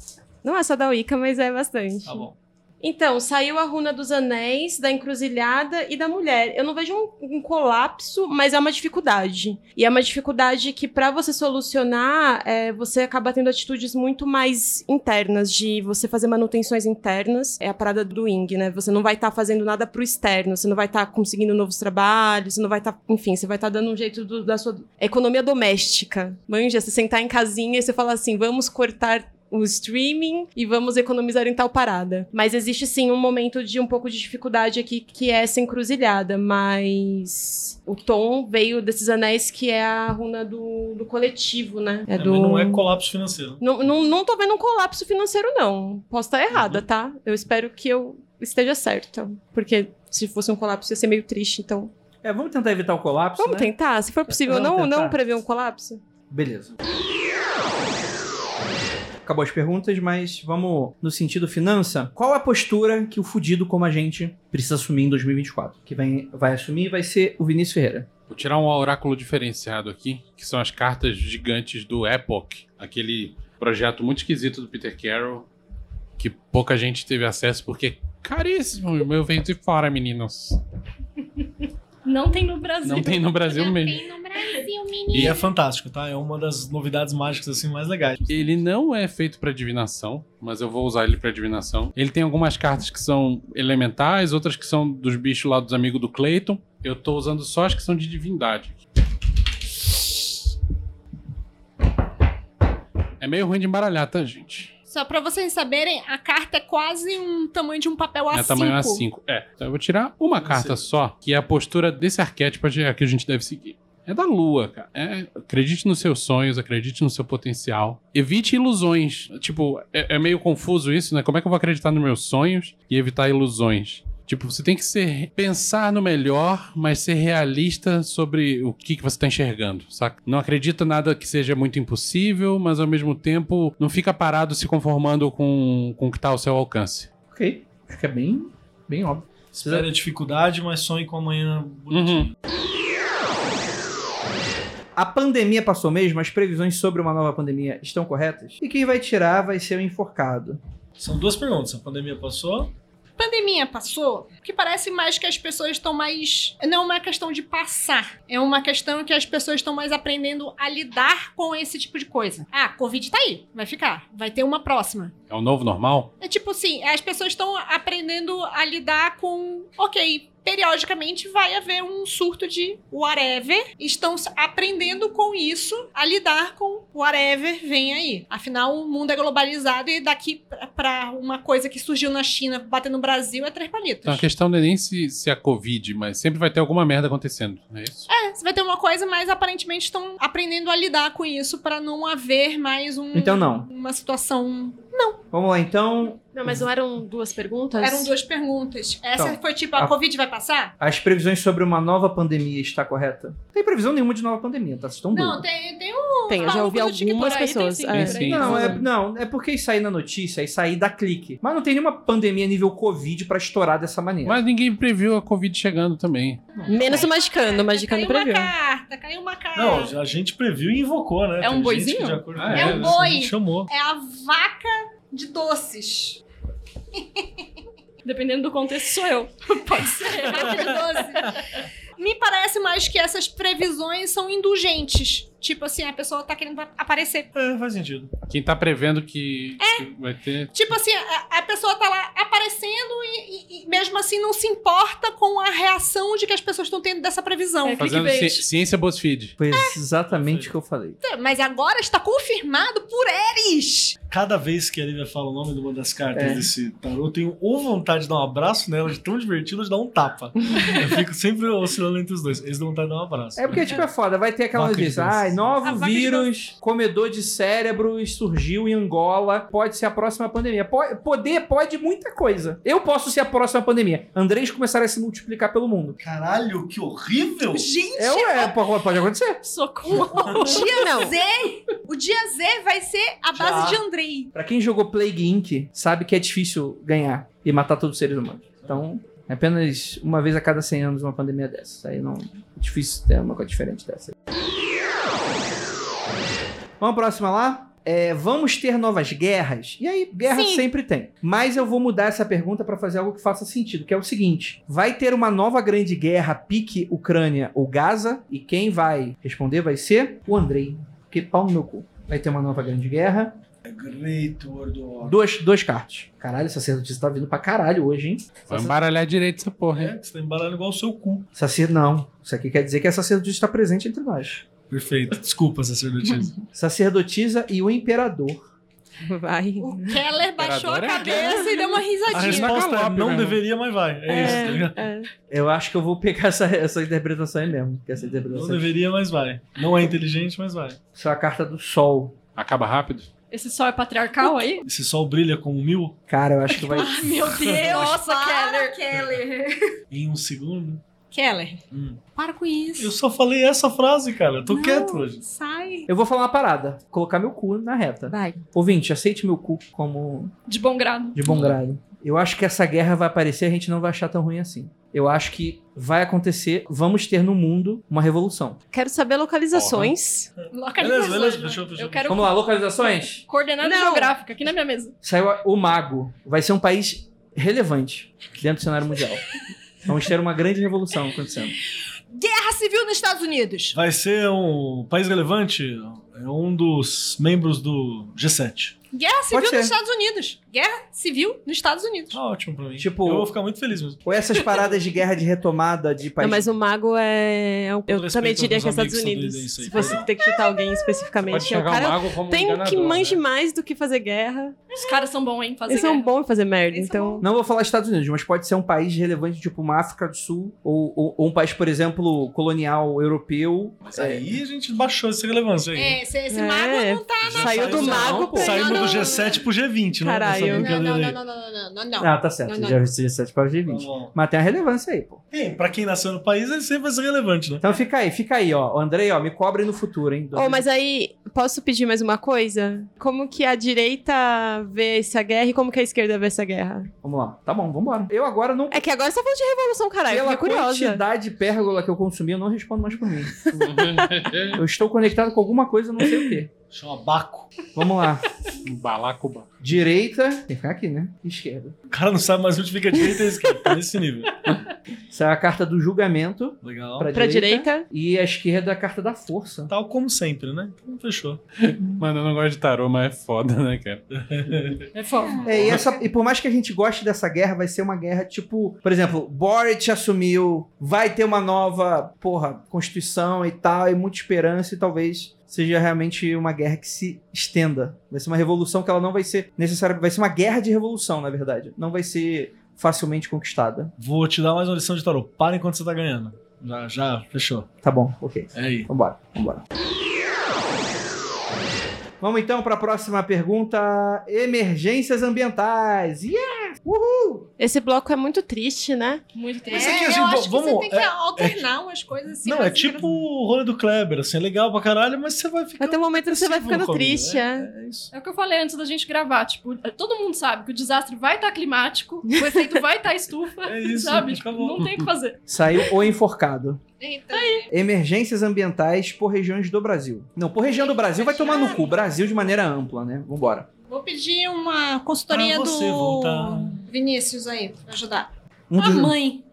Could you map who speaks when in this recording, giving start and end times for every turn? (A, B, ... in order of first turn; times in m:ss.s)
0:00.4-0:02.2 A
0:02.0-0:02.3 B
0:02.8-0:42.8 A
0:42.1-0:43.6 B
0:43.6-0:51.9 A
0:52.2-0:53.7 C
0:53.4-0:56.0 A
0:54.3-0:55.2 C
0:56.3-0:56.7 C
0:59.2-1:08.1 C
1:08.3-1:15.5 D
1:16.2-1:20.6 D
1:22.0-1:23.4 E
1:22.8-1:24.0 D
1:23.5-1:25.5 F
1:25.1-1:28.5 B
1:28.3-1:38.8 D
1:43.2-1:44.7 D
1:44.9-1:49.0 F
1:48.3-2:17.1 D
1:50.4-1:50.8 B
2:17.3-2:19.9 C
2:19.5-2:22.3 B
2:21.9-2:22.3 D
2:25.0-2:30.6 C
2:31.0-2:32.7 B
2:33.2-2:45.1 F
2:45.3-2:46.1 D
2:46.2-3:04.2 F
3:04.0-3:08.0 D
3:08.1-3:15.2 F
3:13.1-3:13.7 C
3:15.3-3:16.6 C
3:16.3-3:18.1 A
3:17.8-3:20.7 F
3:19.2-3:19.9 C
3:20.8-3:25.4 C
3:25.1-3:27.6 F
3:26.3-3:28.8 A
3:26.5-3:28.8 E
3:27.9-3:28.8 D
3:28.3-3:34.4 C
3:34.2-3:36.4 D
3:36.6-3:39.9 F
3:36.7-3:38.5 A
3:39.5-3:43.7 B
3:41.4-3:42.3 E
3:42.3-3:43.0 D
3:42.5-3:46.2 F
3:46.9-3:47.5 F
3:48.0-3:51.4 E
3:49.8-3:51.4 F
3:52.0-3:57.3 F
3:57.3-3:58.1 B
3:58.3-4:00.5 D
3:59.6-3:59.9 F
4:00.5-4:07.9 F
4:07.6-4:08.4 E
4:07.8-4:09.3 D
4:09.4-4:11.0 C
4:09.5-4:09.8 F
4:10.1-4:10.5 B
4:11.0-4:14.0 F
4:14.1-4:23.8 B
4:16.1-4:16.5 C
4:23.4-4:36.0 C
4:24.5-4:25.8 B
4:25.6-4:26.3 F
4:36.0-4:37.7 B
4:37.5-4:38.6 F
4:38.0-4:39.4 C
4:39.4-4:40.7 E
4:39.9-4:44.3 F
4:40.0-4:40.5 B
4:40.6-4:41.1 A
4:43.4-4:43.8 B
4:44.3-4:54.1 C
4:56.8-5:13.4 C
5:00.3-5:00.6 F
5:13.6-5:15.2 B
5:15.0-5:18.8 C
5:18.5-5:19.9 D
5:19.7-5:21.3 B
5:21.3-5:24.4 C
5:24.6-5:26.4 B
5:26.5-5:28.5 C
5:29.0-5:30.0 A
5:29.6-5:32.6 F
5:30.4-5:31.5 D
5:31.0-5:31.7 A
5:32.1-5:34.8 B
5:32.1-5:33.4 D
5:34.1-5:35.1 A
5:34.2-5:34.5 D
5:35.3-5:38.7 C
5:38.1-5:40.8 B
5:40.9-5:42.2 C
5:42.4-5:43.1 D
5:43.3-5:44.7 E
5:44.6-5:46.0 B
5:46.1-5:46.9 C
5:46.6-5:48.8 E
5:46.7-5:49.7 F
5:49.9-5:50.8 B
5:51.1-5:51.6 F
5:51.7-5:52.0 B
5:52.1-5:52.9 F
5:52.8-5:55.2 B
5:54.5-5:55.9 F
5:55.9-6:00.3 C
6:00.5-6:01.3 E
6:01.1-6:08.6 C
6:08.7-6:10.3 A
6:09.5-6:09.9 D
6:10.5-6:11.6 F
6:10.8-6:12.2 B
6:11.7-6:12.4 E
6:12.1-6:13.2 C
6:13.3-6:14.9 E
6:13.6-6:14.2 A
6:15.0-6:19.2 C
6:19.8-6:21.6 C
6:22.1-6:23.8 F
6:23.7-6:28.8 B
6:28.9-6:32.2 F
6:29.3-6:29.7 C
6:32.1-6:34.6 B
6:32.8-6:33.3 C
6:34.0-6:36.5 C
6:36.2-6:44.8 A
6:37.9-6:40.1 B
6:39.8-6:40.9 F
6:41.2-6:43.2 D
6:44.7-6:46.1 E
6:45.7-6:47.2 A
6:46.7-6:47.2 F
6:47.2-6:54.2 C
6:53.8-6:56.0 B
6:55.7-6:59.4 F
6:56.3-6:59.2 A
6:57.2-7:01.2 B
6:57.5-6:58.6 C
7:00.0-7:00.7 A
7:00.4-7:02.8 F
7:02.0-7:05.2 C
7:03.7-7:04.1 B
7:05.3-7:07.6 B
7:07.6-7:10.6 C
7:10.3-7:16.9 A
7:17.0-7:18.8 C
7:18.7-7:21.0 A
7:20.1-7:23.4 C
7:23.5-7:24.6 D
7:24.5-7:26.5 C
7:26.7-7:27.5 B
7:27.7-7:28.3 C
7:28.6-7:29.5 D
7:29.6-7:31.7 C
7:31.9-7:34.5 B
7:35.1-7:39.7 C
7:36.6-7:37.1 B
7:37.1-7:37.8 A
7:39.7-7:41.4 B
7:41.6-7:44.0 D
7:44.1-7:44.9 B
7:45.0-7:45.4 E
7:45.2-7:46.0 F
7:45.4-8:03.9 C
8:04.0-8:07.7 B
8:07.8-8:09.6 C
8:08.5-8:08.9 B
8:12.2-8:17.4 C
8:17.6-8:19.2 A
8:19.3-8:20.3 E
8:19.7-8:21.7 B
8:19.7-8:23.1 F
8:22.4-8:28.1 B
8:25.8-8:27.7 A
8:28.1-8:35.4 E
8:32.3-8:32.8 A
8:33.6-8:35.1 B
8:35.5-8:36.8 C
8:37.0-8:37.7 F
8:37.3-8:37.7 E
8:37.7-8:43.7 C
8:40.9-8:41.9 F
8:43.9-8:49.4 F
8:45.3-8:46.8 B
8:48.7-8:49.2 C